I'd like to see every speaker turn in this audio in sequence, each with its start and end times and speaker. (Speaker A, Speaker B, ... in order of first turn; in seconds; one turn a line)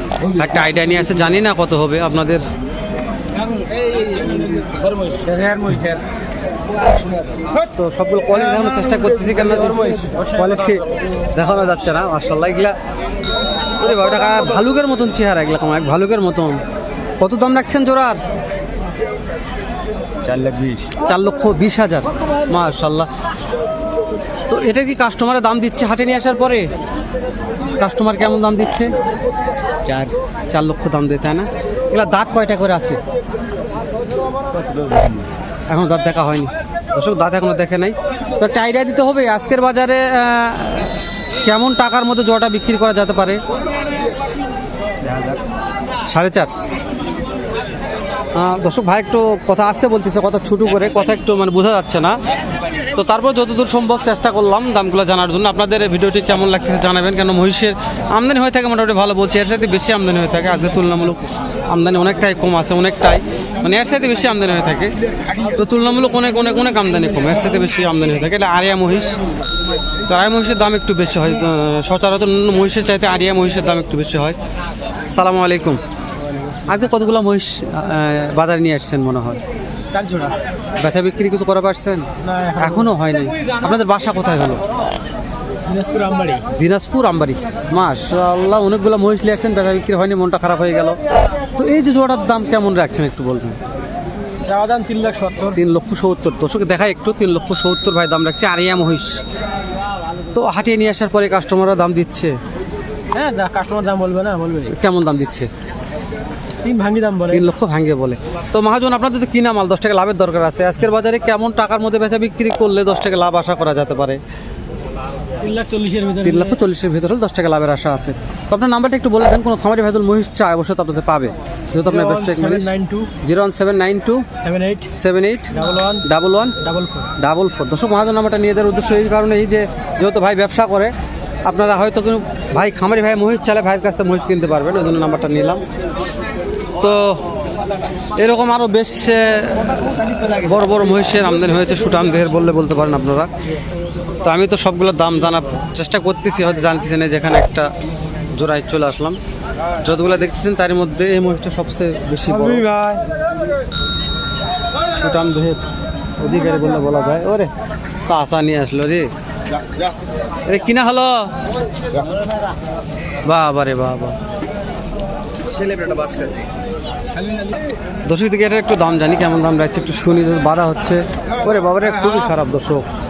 Speaker A: 0.2-2.4
Speaker B: 3.6-6.0
Speaker A: 7.7-12.8
Speaker A: 13.8-16.6
Speaker A: 17.2-18.2
Speaker B: 20.2-20.9
Speaker A: 21.0-23.1
Speaker A: 24.5-26.7
Speaker A: 27.8-28.9
Speaker B: 29.9-30.1
Speaker A: 30.5-33.0
Speaker B: 34.8-35.2
Speaker A: 35.7-40.9
Speaker A: 41.4-43.4
Speaker A: 46.1-46.5
Speaker A: 48.4-52.2
Speaker A: 52.9-69.2
Speaker A: 70.1-74.4
Speaker A: 75.1-75.8
Speaker C: 76.3-76.6
Speaker A: 76.7-79.4
Speaker C: 79.9-80.4
Speaker A: 80.8-84.6
Speaker C: 82.2-82.9
Speaker C: 85.7-86.5
Speaker A: 86.5-91.0
Speaker A: 91.6-93.6
Speaker C: 94.4-95.6
Speaker A: 95.5-99.2
Speaker A: 100.3-102.3
Speaker C: 103.1-104.7
Speaker A: 104.7-105.5
Speaker C: 106.6-107.4
Speaker A: 107.3-114.2
Speaker C: 115.4-116.6
Speaker A: 116.2-122.7
Speaker C: 121.9-123.1
Speaker A: 123.2-124.2
Speaker C: 124.3-124.9
Speaker A: 124.9-126.6
Speaker C: 125.5-126.0
Speaker C: 126.6-127.1
Speaker A: 127.2-130.9
Speaker A: 131.4-135.6
Speaker A: 136.8-137.2
Speaker A: 138.2-143.3
Speaker A: 144.2-147.7
Speaker A: 148.3-149.2
Speaker A: 149.8-152.8
Speaker C: 152.6-153.0
Speaker A: 154.9-155.6
Speaker A: 156.2-157.5
Speaker A: 158.0-159.1
Speaker A: 160.5-161.3
Speaker A: 163.2-164.1
Speaker B: 165.5-166.4
Speaker A: 168.1-172.9